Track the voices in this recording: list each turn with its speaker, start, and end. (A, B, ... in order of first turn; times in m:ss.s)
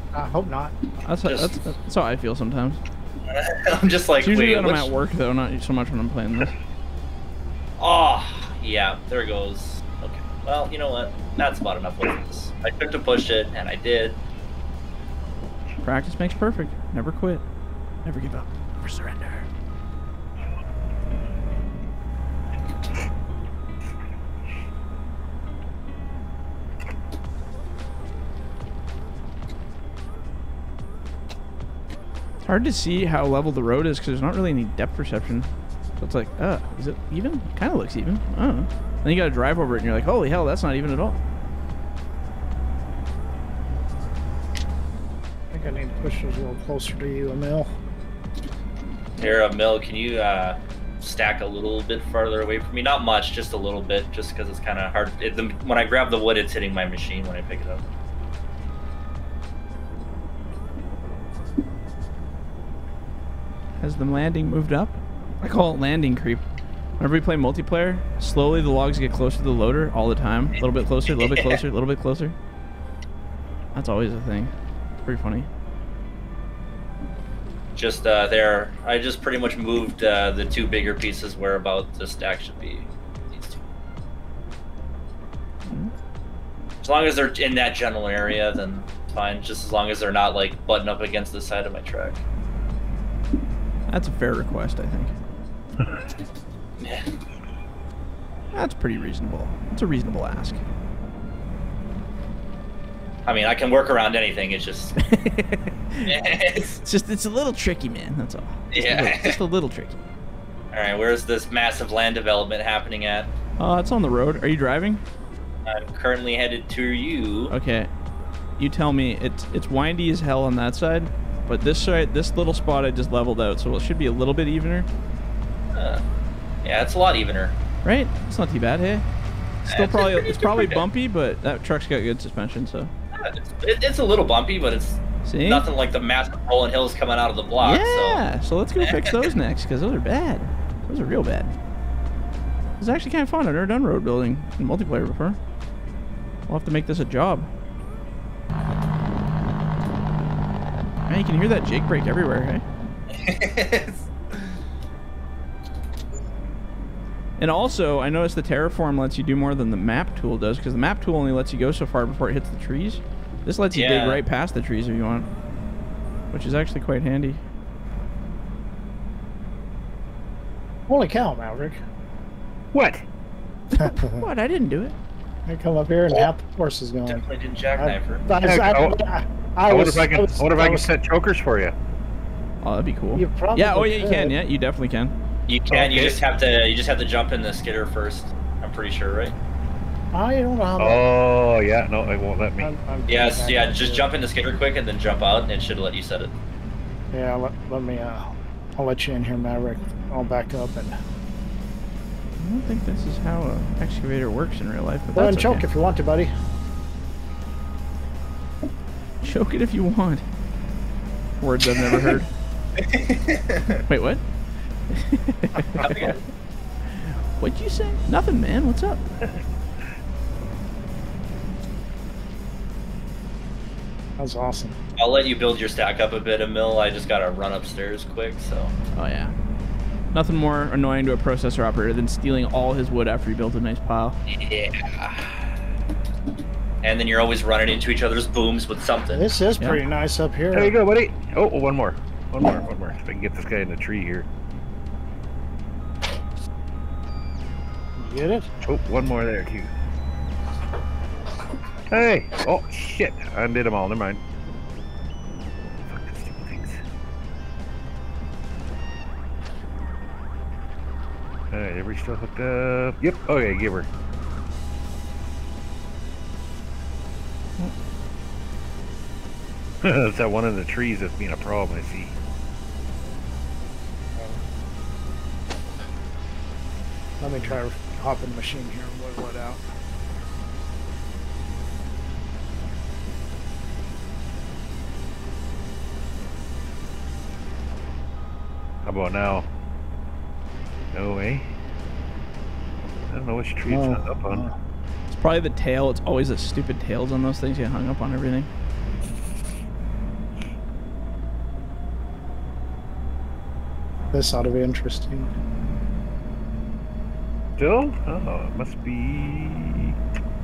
0:00.1-0:00.8 A
0:01.0-0:02.8 B
0:01.2-0:01.6 C
0:03.3-0:04.9 C
0:04.2-0:06.5 B
0:07.8-0:14.2 C
0:15.8-0:17.4 B
0:18.0-0:19.5 B
0:32.4-0:41.2 B
0:45.5-0:47.7 A
0:49.2-0:57.8 C
1:03.8-1:06.4 B
1:07.0-1:12.4 B
1:11.1-1:11.6 C
1:13.8-1:14.5 B
1:15.0-1:15.5 B
1:17.8-1:23.6 C
1:25.7-1:25.9 B
1:26.8-1:32.2 C
1:33.9-1:35.1 B
1:36.8-1:37.1 C
1:38.5-1:40.6 B
1:43.2-1:45.0 C
1:45.0-1:46.2 B
1:46.1-1:46.8 C
1:46.8-1:50.0 B
1:48.7-1:49.4 C
1:50.7-1:53.3 C
1:53.6-1:55.0 B
1:55.7-1:57.5 C
1:57.5-1:57.9 B
1:58.6-2:04.9 B
2:05.7-2:06.0 C
2:06.6-2:07.6 C
2:07.8-2:09.1 B
2:09.6-2:12.9 B
2:09.7-2:10.8 C
2:13.1-2:18.2 C
2:15.2-2:15.7 B
2:17.6-2:21.6 B
2:18.8-2:19.2 C
2:22.8-2:25.4 B
2:26.5-2:27.5 B
2:31.1-2:32.6 B
2:33.1-2:34.0 C
2:37.4-2:45.3 B
2:43.7-2:44.2 C
2:46.3-2:47.4 B
2:50.9-2:51.8 A
2:52.7-2:53.0 D
2:53.7-2:55.0 B
2:53.8-2:54.2 A
2:55.5-2:57.2 A
2:57.1-2:58.3 C
2:57.8-3:00.9 A
2:58.4-2:59.0 D
2:59.7-3:01.7 D
3:02.6-3:05.1 B
3:03.2-3:04.4 A
3:05.5-3:09.4 C
3:05.7-3:06.2 D
3:10.1-3:11.1 A
3:10.8-3:12.7 D
3:12.6-3:14.1 A
3:13.1-3:16.3 C
3:17.1-3:21.0 A
3:22.4-3:25.6 B
3:25.2-3:26.3 A
3:29.2-3:30.2 B
3:31.4-3:32.3 B
3:32.8-3:33.8 C
3:33.9-3:34.2 B
3:34.9-3:36.1 B
3:35.8-3:36.2 C
3:37.0-3:39.0 B
3:44.2-3:44.8 A
3:45.0-3:48.7 C
3:48.9-3:49.3 B
3:50.1-3:54.2 B
3:54.3-3:55.4 C
3:56.8-3:59.3 C
3:59.1-4:00.8 A
4:00.5-4:04.3 D
4:08.0-4:08.5 A
4:08.6-4:09.7 D
4:11.9-4:14.2 D
4:15.9-4:16.8 D
4:21.5-4:23.9 D
4:29.8-4:32.2 D
4:37.2-4:39.6 A
4:48.8-4:49.5 D
4:50.9-4:51.5 D
4:53.1-4:54.5 D
4:53.7-4:54.6 A
4:55.1-4:58.5 B
5:04.1-5:05.3 A
5:07.6-5:10.0 D